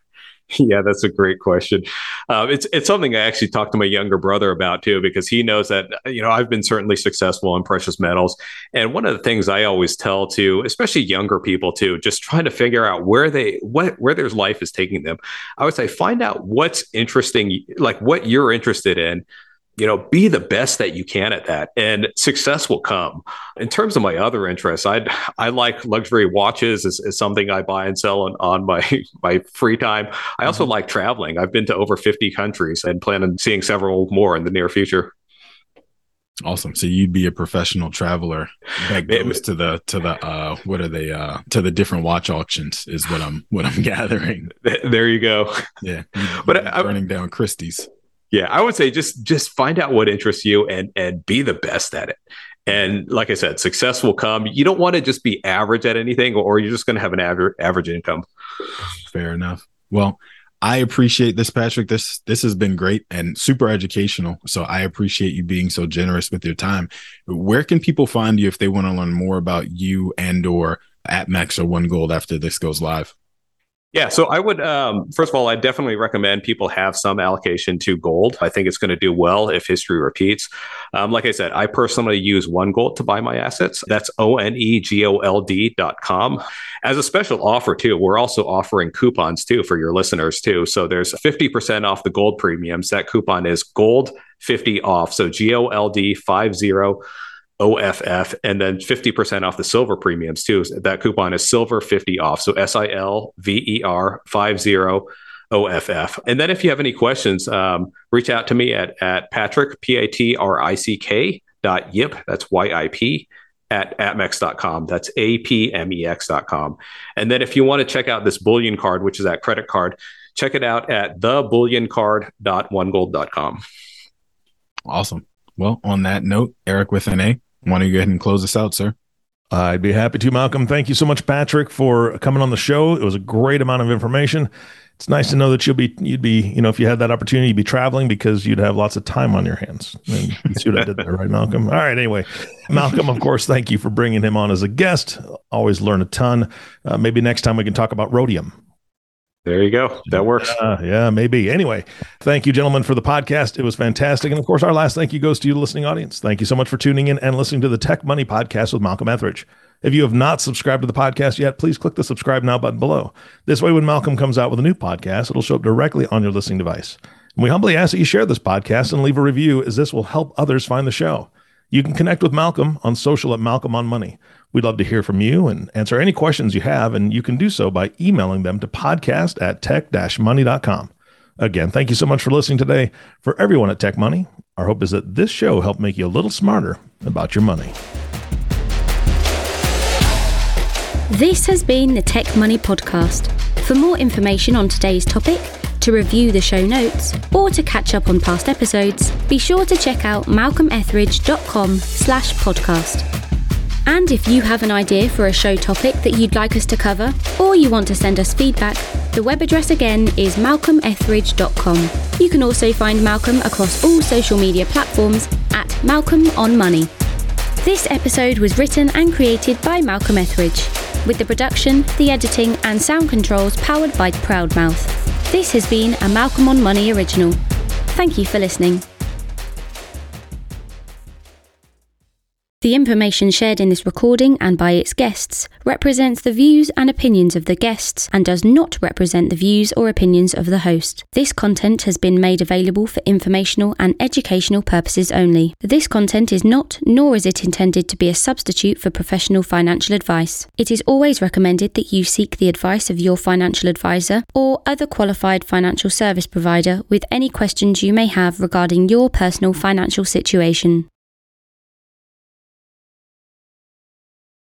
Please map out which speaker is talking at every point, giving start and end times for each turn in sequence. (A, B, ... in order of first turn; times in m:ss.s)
0:00.5-0:19.2 A
0:19.8-0:35.1 A
0:36.4-0:44.5 B
0:39.1-0:39.4 A
0:44.6-0:45.7 A
0:45.8-0:47.9 B
0:46.5-0:46.9 A
0:48.3-0:58.2 A
0:59.1-1:13.1 B
1:13.9-1:37.0 A
1:37.6-2:03.6 A
2:04.9-2:08.9 B
2:09.5-2:28.6 C
2:29.5-2:30.5 A
2:30.4-3:07.7 C
3:11.1-3:23.1 D
3:23.9-3:36.9 D
3:37.6-3:47.4 D
3:47.9-3:48.8 D
3:52.6-4:20.9 D